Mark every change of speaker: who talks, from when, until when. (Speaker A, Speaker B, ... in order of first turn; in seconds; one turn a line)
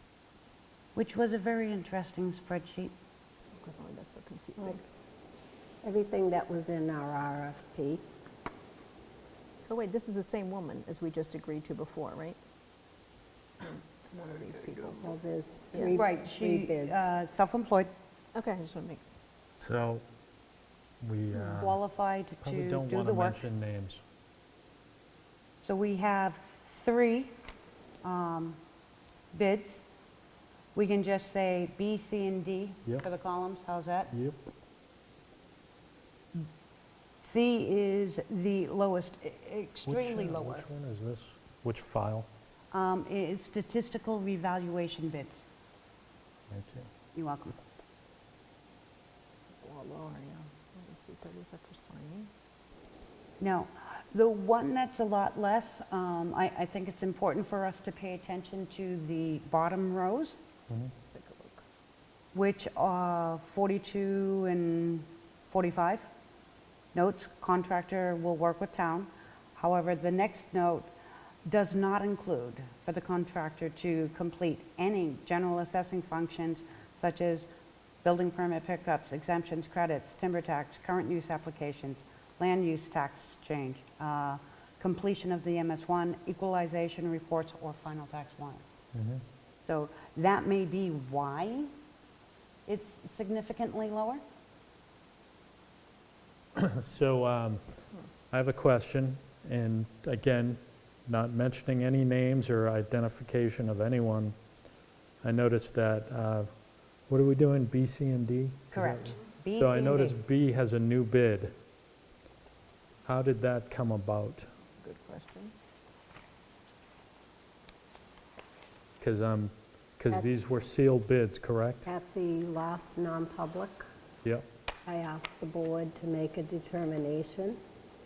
Speaker A: 0.9-2.9
Speaker B: 3.6-4.8
Speaker C: 4.6-5.0
Speaker C: 5.8-8.1
Speaker B: 9.6-12.4
Speaker B: 13.6-15.1
Speaker C: 15.0-17.2
Speaker B: 15.7-16.0
Speaker A: 15.9-17.9
Speaker B: 18.3-19.0
Speaker D: 19.6-20.0
Speaker D: 21.0-21.8
Speaker A: 21.3-23.5
Speaker D: 22.4-24.0
Speaker A: 25.6-27.3
Speaker A: 28.0-28.6
Speaker A: 29.3-29.8
Speaker A: 30.8-34.1
Speaker D: 34.1-34.4
Speaker A: 37.2-40.7
Speaker D: 39.9-42.3
Speaker A: 42.7-45.5
Speaker D: 46.5-46.9
Speaker A: 47.1-47.6
Speaker B: 49.6-52.3
Speaker A: 53.4-60.4
Speaker B: 61.1-61.6
Speaker A: 62.3-66.1
Speaker A: 66.9-70.9
Speaker A: 71.5-77.5
Speaker A: 78.0-88.6
Speaker D: 88.9-89.2
Speaker A: 89.7-91.7
Speaker A: 92.7-94.2
Speaker D: 96.6-97.6
Speaker D: 98.3-104.3
Speaker D: 105.2-106.5
Speaker D: 107.0-111.5
Speaker A: 108.7-110.2
Speaker D: 113.1-114.5
Speaker B: 114.8-115.5
Speaker D: 119.0-121.8
Speaker C: 121.8-123.8
Speaker C: 124.9-127.6